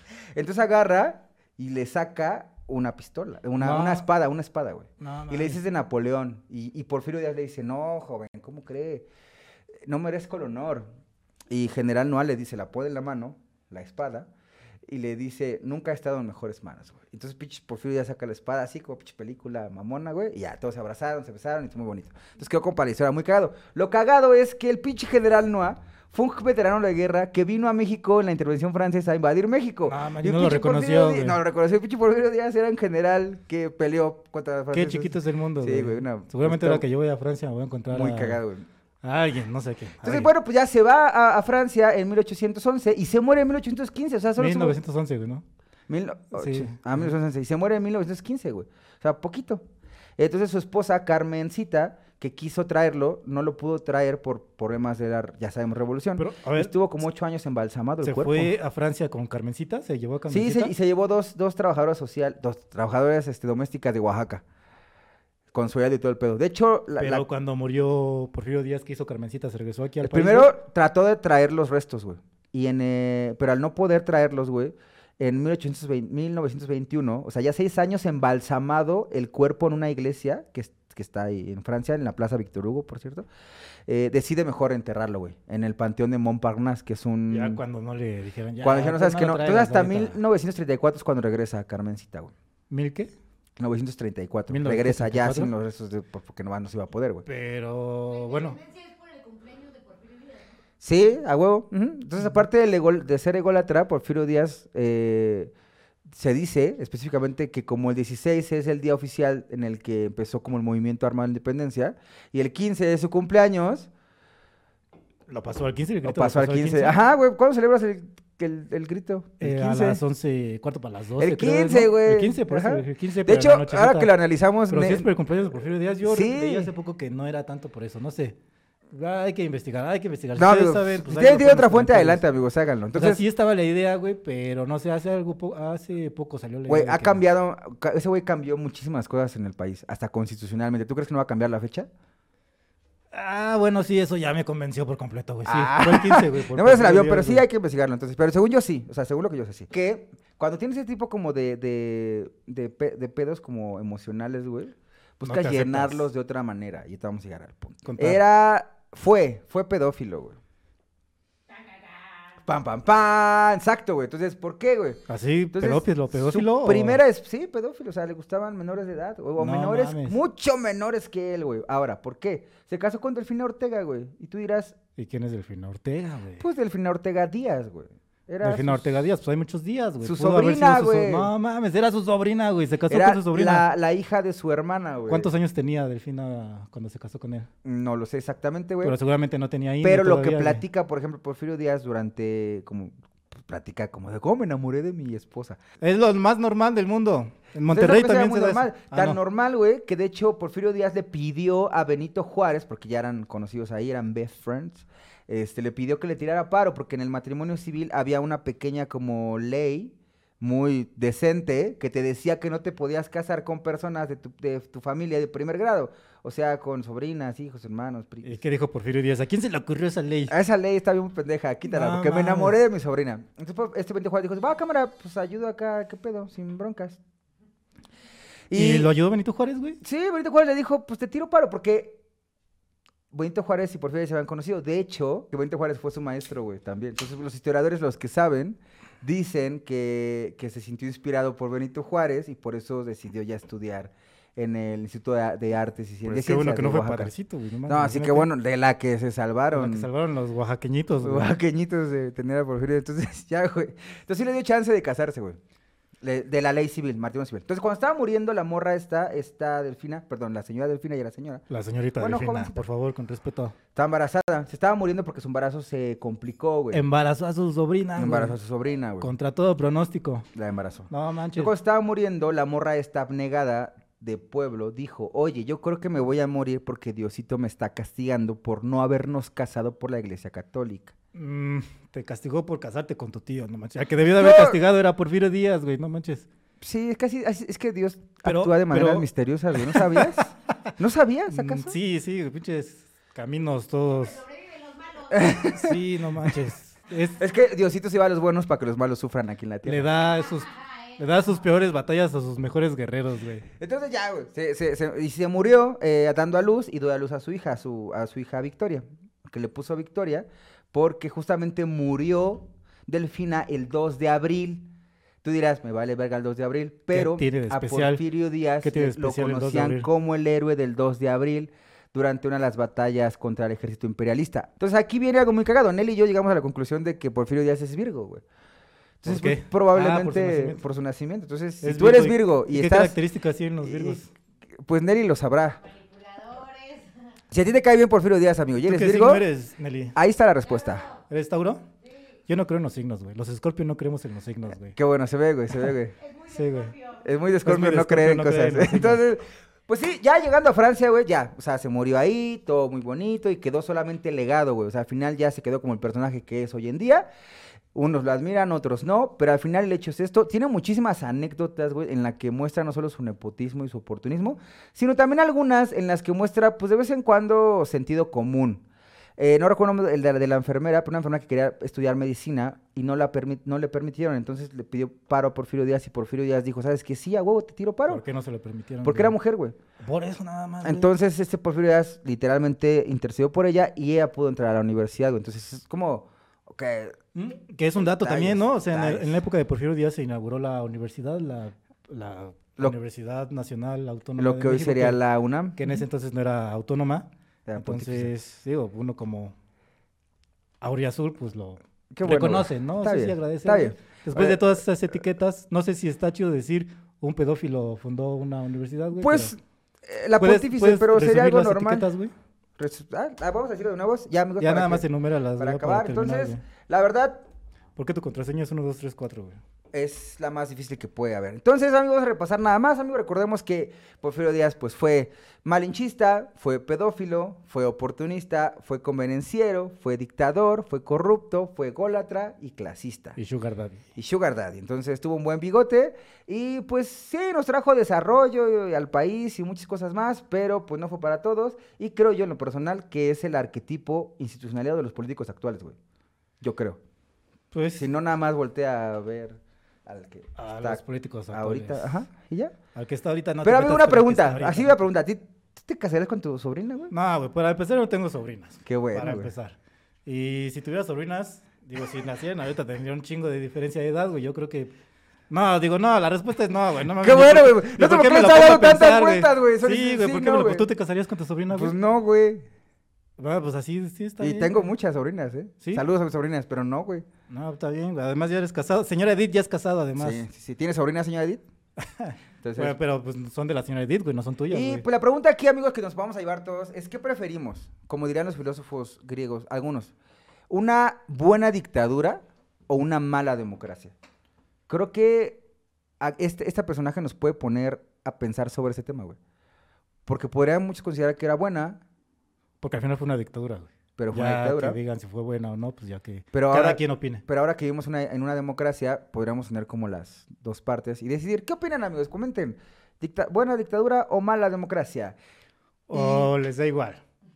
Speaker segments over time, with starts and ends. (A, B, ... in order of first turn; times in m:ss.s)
0:00.4-0:09.1 A
0:03.6-0:04.1 B
0:05.0-0:05.6 B
0:09.9-0:10.9 A
0:11.5-0:14.3 A
0:14.9-0:36.8 A
0:29.9-0:31.4 B
0:34.7-0:38.4 B
0:37.9-0:38.7 A
0:39.0-0:40.3 B
0:40.0-0:44.8 A
0:44.4-0:45.4 B
0:45.9-0:49.6 A
0:46.4-0:47.1 B
0:50.2-0:58.5 A
0:56.2-0:56.7 B
0:58.0-1:00.7 B
1:00.3-1:04.4 A
1:05.5-1:07.2 A
1:07.0-1:10.5 B
1:10.0-1:23.3 A
1:23.9-1:27.6 A
1:27.3-1:30.2 B
1:28.6-1:32.3 A
1:32.7-1:33.1 B
1:33.6-1:37.3 A
1:34.5-1:35.5 B
1:37.3-1:38.6 B
1:38.1-1:40.6 C
1:40.8-1:45.5 A
1:46.1-1:53.9 A
1:55.3-1:57.0 B
1:56.0-2:00.0 A
1:59.4-2:04.1 B
2:01.2-2:05.1 A
2:04.7-2:08.4 B
2:06.0-2:06.7 A
2:08.9-2:12.2 B
2:10.4-2:13.2 A
2:13.0-2:17.2 B
2:16.7-2:21.9 A
2:23.1-2:27.4 B
2:25.5-2:40.4 A
2:35.2-2:36.1 B
2:37.8-2:38.2 B
2:41.5-2:42.4 C
2:42.4-2:45.0 A
2:45.1-2:47.0 B
2:45.5-2:54.8 A
2:49.4-2:50.2 B
2:55.0-2:56.4 B
2:56.4-2:58.9 A
2:58.4-3:03.7 B
3:00.0-3:01.3 A
3:02.9-3:05.3 A
3:05.1-3:07.5 B
3:07.6-3:08.9 A
3:08.8-3:10.6 B
3:09.8-3:15.6 A
3:15.8-3:19.2 B
3:17.7-3:38.4 A
3:38.2-3:40.3 B
3:40.3-3:47.0 A
3:41.7-3:42.6 B
3:48.5-3:48.9 A
3:48.5-3:49.8 B
3:49.8-3:52.0 A
3:53.1-4:07.1 A
4:06.0-4:08.3 B
4:07.7-4:09.9 A
4:09.5-4:11.3 B
4:11.0-4:15.4 A
4:16.0-4:21.4 A
4:21.5-4:23.6 B
4:22.0-4:22.6 A
4:23.8-4:26.8 A
4:26.7-4:28.4 B
4:28.0-4:29.1 A
4:29.0-4:30.3 B
4:30.4-4:40.9 A
4:30.9-4:31.5 B
4:41.1-4:46.3 B
4:44.2-4:44.6 A
4:46.6-4:51.8 A
4:48.2-4:50.3 B
4:51.3-4:54.2 B
4:54.0-4:55.6 C
4:55.1-4:55.8 A
4:55.6-4:57.2 B
4:57.2-5:00.0 A
4:59.7-5:03.5 B
5:00.3-5:01.2 C
5:03.6-5:14.7 A
5:15.2-5:28.2 A
5:16.9-5:18.0 B
5:18.6-5:19.9 B
5:29.0-5:33.0 A
5:29.0-5:30.6 B
5:31.6-5:34.1 B
5:33.6-5:34.1 A
5:34.6-5:35.6 A
5:35.6-5:36.9 C
5:37.3-5:39.2 A
5:38.6-5:40.0 B
5:40.0-5:40.9 A
5:40.4-5:41.0 C
5:41.1-5:41.6 B
5:41.8-5:42.2 C
5:42.3-5:44.8 B
5:44.8-5:46.0 A
5:46.0-5:47.1 C
5:46.3-5:46.8 B
5:47.0-5:57.1 A
5:47.4-5:49.0 B
5:57.7-6:08.6 A
6:09.2-6:18.0 A
6:17.9-6:19.2 B
6:18.8-6:19.6 A
6:19.8-6:20.9 B
6:20.6-6:27.0 A
6:27.2-6:35.0 B
6:28.0-6:29.2 A
6:34.2-6:35.8 A
6:35.6-6:39.4 B
6:37.5-6:38.1 A
6:40.6-6:49.3 B
6:41.9-6:44.6 A
6:49.0-6:51.9 A
6:50.2-6:52.1 B
6:52.6-6:54.8 A
6:54.4-6:56.4 B
6:55.4-6:57.2 A
6:57.8-6:59.4 B
6:59.7-7:13.2 A
7:13.2-7:13.8 B
7:14.0-7:25.8 A
7:26.4-7:26.8 A
7:27.5-7:27.9 B
7:27.8-7:32.6 A
7:30.4-7:32.0 B
7:32.8-7:34.9 B
7:33.4-7:36.9 A
7:36.9-7:44.7 B
7:38.7-7:39.3 A
7:45.3-7:51.8 B
7:47.0-7:50.7 A
7:51.5-7:52.5 A
7:53.2-7:54.7 B
7:54.2-7:57.0 A
7:57.3-8:00.2 B
8:00.0-8:01.4 A
8:01.8-8:04.8 B
8:02.4-8:02.8 A
8:04.5-8:09.9 A
8:10.5-8:13.9 A
8:14.7-8:15.4 A
8:16.0-8:19.2 A
8:20.1-8:21.8 A
8:22.6-8:27.2 B
8:24.0-8:24.8 A
8:26.3-8:35.2 A
8:35.9-8:37.0 B
8:35.9-8:36.3 A